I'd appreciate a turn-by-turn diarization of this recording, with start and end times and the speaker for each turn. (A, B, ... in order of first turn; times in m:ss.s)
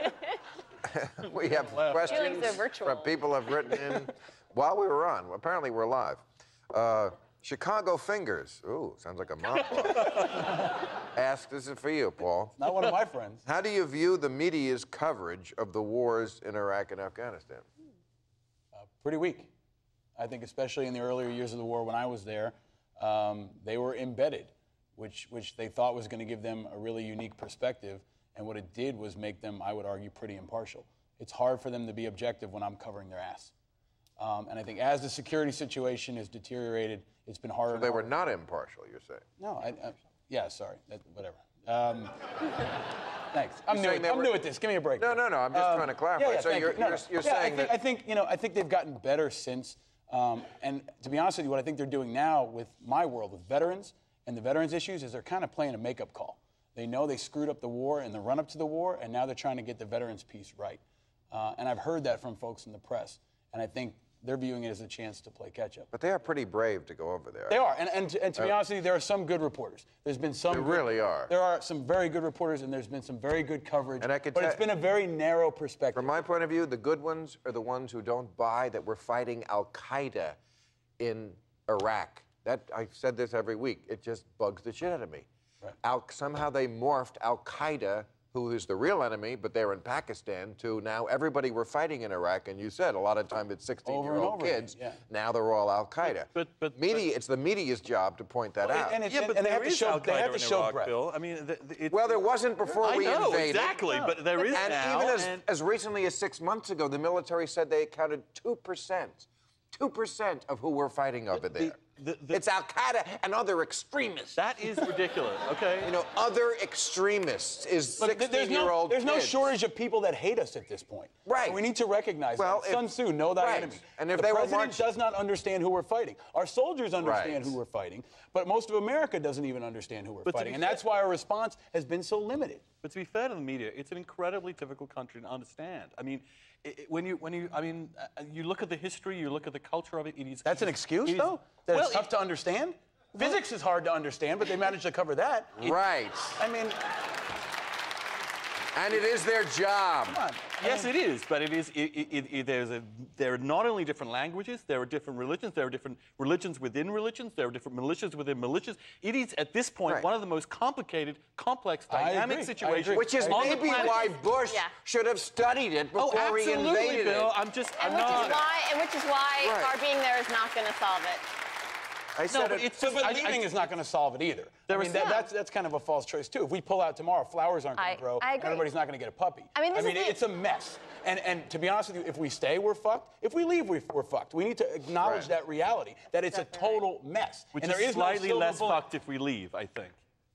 0:00.8-0:10.3 A
0:01.7-0:02.6 B
0:02.0-0:03.2 C
0:09.8-0:10.4 B
0:11.1-0:12.6 A
0:12.6-0:13.4 D
0:13.5-0:17.7 A
0:18.7-0:19.5 D
0:20.2-0:33.5 D
0:34.2-0:38.2 D
0:37.7-0:39.2 A
0:39.4-0:42.2 D
0:43.3-1:05.9 D
0:43.7-0:44.4 A
0:45.0-0:47.8 A
1:05.9-1:07.6 A
1:07.5-1:16.1 D
1:10.5-1:11.3 A
1:14.0-1:14.6 A
1:15.9-1:20.4 A
1:21.0-1:25.3 A
1:25.8-1:39.0 A
1:33.8-1:35.0 D
1:36.1-1:37.1 B
1:38.6-1:40.9 D
1:38.9-1:42.2 B
1:41.9-1:43.8 A
1:42.8-1:45.4 B
1:43.8-1:45.2 C
1:44.5-1:54.5 A
1:51.3-1:52.4 B
1:54.4-1:55.9 B
1:55.8-1:59.5 A
1:58.0-2:12.6 D
2:01.2-2:01.7 A
2:02.4-2:04.8 A
2:07.0-2:07.6 A
2:10.2-2:10.8 B
2:12.8-2:22.1 B
2:20.4-2:25.8 D
2:25.6-2:26.4 A
2:26.4-2:26.8 D
2:28.8-2:30.2 A
2:30.1-2:30.9 D
2:30.6-2:44.0 B
2:41.9-2:44.0 D
2:42.9-2:47.3 A
2:44.4-2:44.7 C
2:45.9-2:48.5 B
2:47.8-2:51.2 C
2:49.4-2:49.7 A
2:52.1-2:52.7 A
2:52.3-2:53.5 B
2:52.6-3:08.8 D
2:54.7-2:55.2 B
2:54.9-2:55.2 C
2:57.8-2:58.7 C
2:59.5-3:00.2 C
3:05.0-3:05.3 A
3:06.3-3:06.8 C
3:07.5-3:10.0 B